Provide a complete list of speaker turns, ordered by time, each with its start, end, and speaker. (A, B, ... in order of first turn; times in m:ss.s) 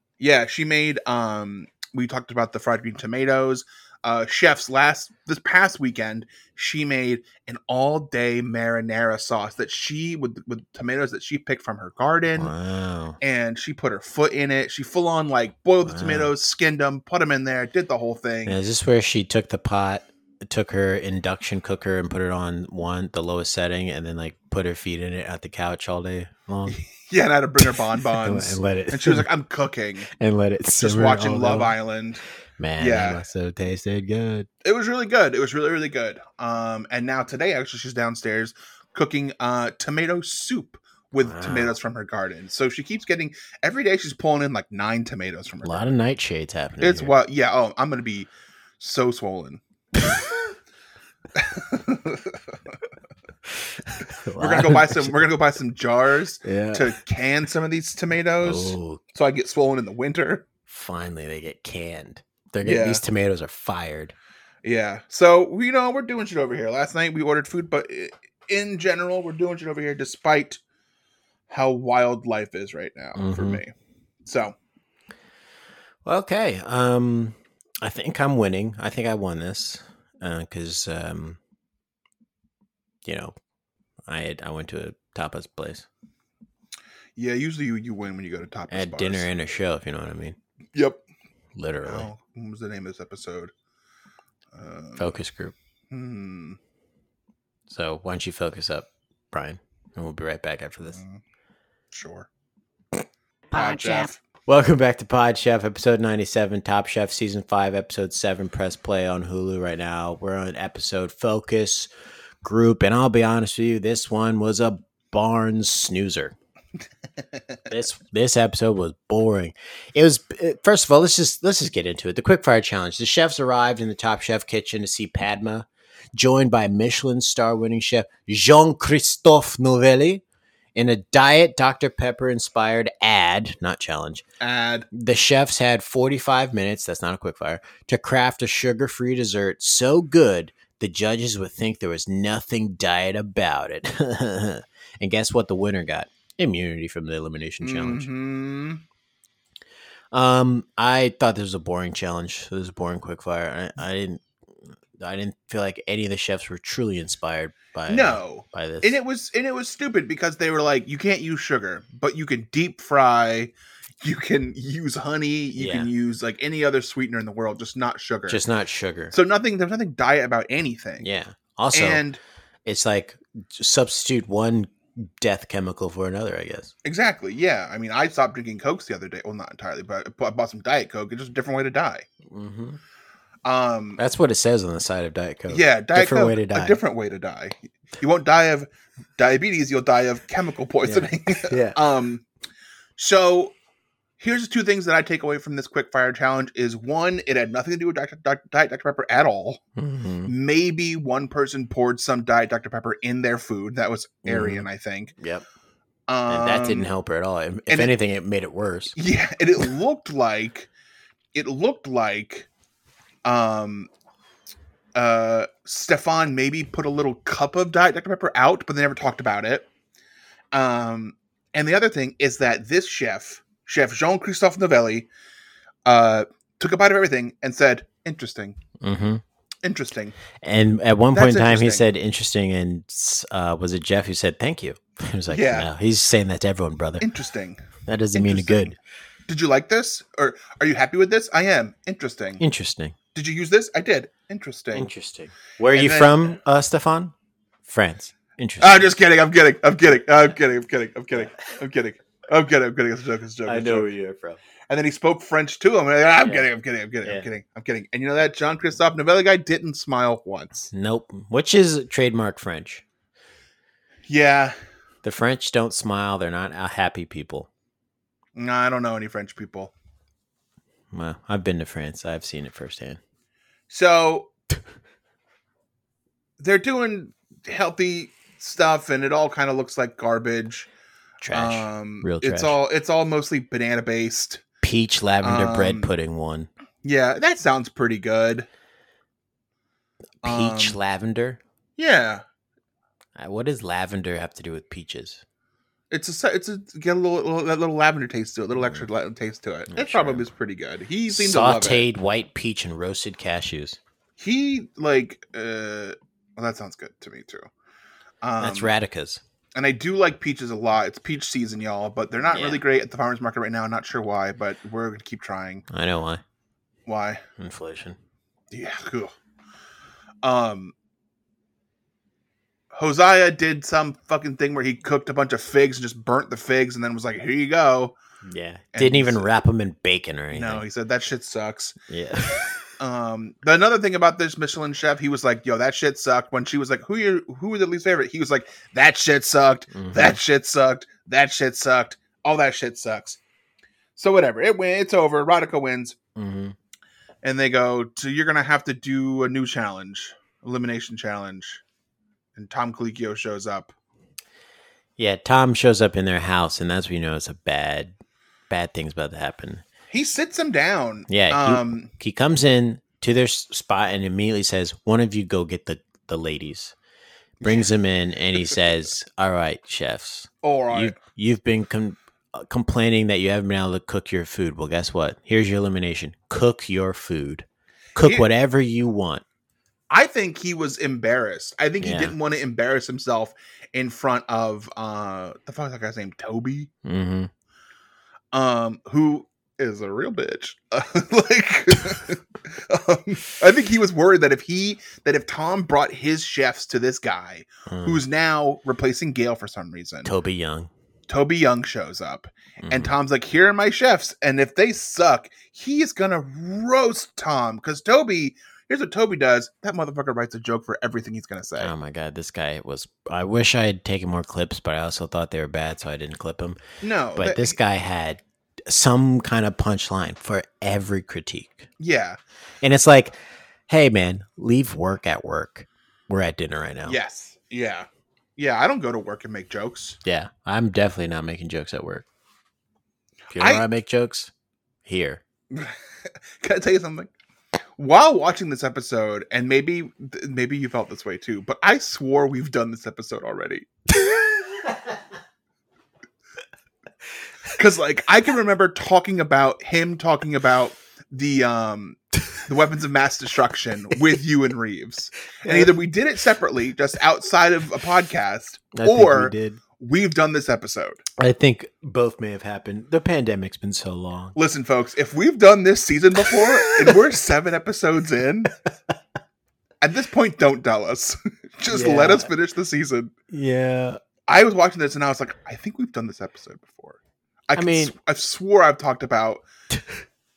0:00.2-0:12.5 A
0:12.4-0:13.2 B
0:13.2-0:18.6 A
0:15.8-0:16.3 B
0:18.5-0:26.8 B
0:26.7-0:30.1 A
0:27.6-0:29.3 B
0:30.2-0:31.7 B
0:30.7-0:32.2 A
0:32.6-0:34.5 B
0:32.8-0:33.2 A
0:34.6-0:45.9 A
0:41.2-0:41.8 B
0:45.6-0:47.2 B
0:46.8-0:49.6 A
0:51.4-0:52.4 A
0:53.9-0:55.2 B
0:54.4-1:00.5 A
0:56.4-0:56.9 B
0:58.4-0:59.0 B
1:00.7-1:04.2 B
1:02.6-1:03.0 A
1:04.6-1:10.6 A
1:11.5-1:13.7 A
1:13.2-1:13.6 B
1:14.2-1:14.5 A
1:16.0-1:21.4 B
1:23.0-1:23.4 B
1:24.1-1:25.9 B
1:27.2-1:29.3 A
1:28.7-1:30.4 B
1:30.8-1:31.0 A
1:31.6-1:32.1 B
1:31.8-1:33.5 A
1:34.5-1:35.2 A
1:35.0-1:35.6 B
1:35.9-1:36.6 A
1:37.7-1:41.0 B
1:40.9-1:41.2 A
1:41.9-1:42.3 A
1:43.5-1:44.2 A
1:43.5-1:51.9 B
1:52.4-1:56.4 B
1:57.7-2:10.2 B
2:10.8-2:14.2 B
2:14.4-2:14.9 A
2:14.9-2:28.1 B
2:27.6-2:28.8 A
2:30.1-2:34.3 B
2:35.0-2:39.0 B
2:37.9-2:48.4 A
2:45.6-2:45.9 B
2:48.3-2:49.2 B
2:49.1-2:51.1 A
2:51.0-2:52.0 B
2:51.7-2:52.2 A
2:52.6-2:56.7 B
2:56.8-3:02.1 A
3:02.3-3:02.8 B
3:03.4-3:04.0 A
3:04.0-3:06.8 B
3:05.5-3:12.2 A
3:10.8-3:11.8 B
3:13.0-3:13.6 A
3:14.2-3:19.6 A
3:19.8-3:20.3 B
3:20.3-3:25.1 A
3:24.2-3:24.7 B
3:25.2-3:25.5 B
3:26.1-3:26.9 A
3:26.3-3:29.0 B
3:27.7-3:28.0 A
3:29.0-3:30.7 A
3:31.3-3:32.5 A
3:33.2-3:33.9 A
3:35.0-3:39.7 A
3:40.5-3:45.1 A
3:45.9-3:48.6 A
3:48.8-3:49.2 B
3:49.6-3:50.2 A
3:50.4-3:57.0 B
3:51.1-3:51.8 A
3:55.3-3:55.7 A
3:57.0-3:58.7 A
3:57.9-3:58.8 B
3:59.3-4:02.4 A
4:02.4-4:03.0 B
4:03.2-4:04.9 A
4:04.7-4:07.1 B
4:05.7-4:06.4 A
4:07.7-4:09.0 B
4:08.6-4:13.9 A
4:13.4-4:14.4 B
4:14.7-4:20.7 A
4:16.2-4:16.5 B
4:17.0-4:17.3 B
4:20.7-4:22.8 B
4:24.1-4:24.6 A
4:25.0-4:27.5 B
4:28.4-4:29.7 A
4:30.9-4:33.0 B
4:33.7-4:34.3 A
4:36.4-4:40.7 A
4:41.2-4:42.6 B
4:41.3-4:44.4 A
4:44.6-4:46.5 B
4:45.2-4:45.9 A
4:46.8-4:48.5 A
4:50.2-4:50.8 A
4:50.2-4:51.4 B
4:51.8-4:52.2 A
4:53.2-4:55.2 B
4:55.9-5:01.8 A
4:59.7-5:00.2 B
5:01.1-5:03.8 B
5:04.2-5:07.5 A
5:08.2-5:08.7 A
5:08.4-5:09.2 B
5:09.6-5:15.6 A
5:12.3-5:12.6 B
5:15.7-5:16.2 B
5:16.9-5:17.2 A
5:17.4-5:18.0 B
5:18.5-5:19.1 A
5:20.2-5:20.7 A
5:22.7-5:28.0 A
5:28.2-5:30.6 B
5:28.7-5:29.3 A
5:30.3-5:31.8 A
5:31.9-5:32.5 B
5:32.8-5:43.2 A
5:39.8-5:40.2 B
5:44.0-5:46.0 A
5:46.2-5:46.6 B
5:47.2-5:51.6 A
5:52.4-5:53.7 A
5:55.0-5:57.9 B
5:58.5-5:59.6 B
5:59.9-6:01.9 A
6:01.1-6:06.8 B
6:07.4-6:07.7 A
6:07.4-6:19.2 B
6:10.4-6:11.0 A
6:18.0-6:18.3 A
6:19.9-6:26.7 A
6:21.8-6:22.2 B
6:26.8-6:27.3 B
6:28.3-6:40.1 A
6:37.7-6:38.0 B
6:40.0-6:40.7 B
6:41.1-6:51.7 A
6:42.6-6:42.9 B
6:51.6-6:56.6 B
6:56.8-6:57.6 A
6:57.2-7:01.7 B
7:01.8-7:02.2 A
7:02.6-7:03.2 B
7:03.7-7:07.0 B
7:06.9-7:10.0 A
7:10.0-7:12.0 B
7:13.3-7:14.3 B
7:13.4-7:13.6 A
7:14.9-7:15.2 B
7:16.4-7:17.1 A
7:17.8-7:23.7 A
7:27.6-7:41.0 A
7:35.4-7:35.7 B
7:38.8-7:39.6 B
7:41.2-7:44.4 B
7:44.4-7:48.6 A
7:46.3-7:47.0 B
7:49.8-7:53.1 A
7:51.7-7:52.3 B
7:53.3-7:54.0 B
7:54.3-7:57.0 A
7:57.5-7:59.4 A
7:57.6-7:57.9 B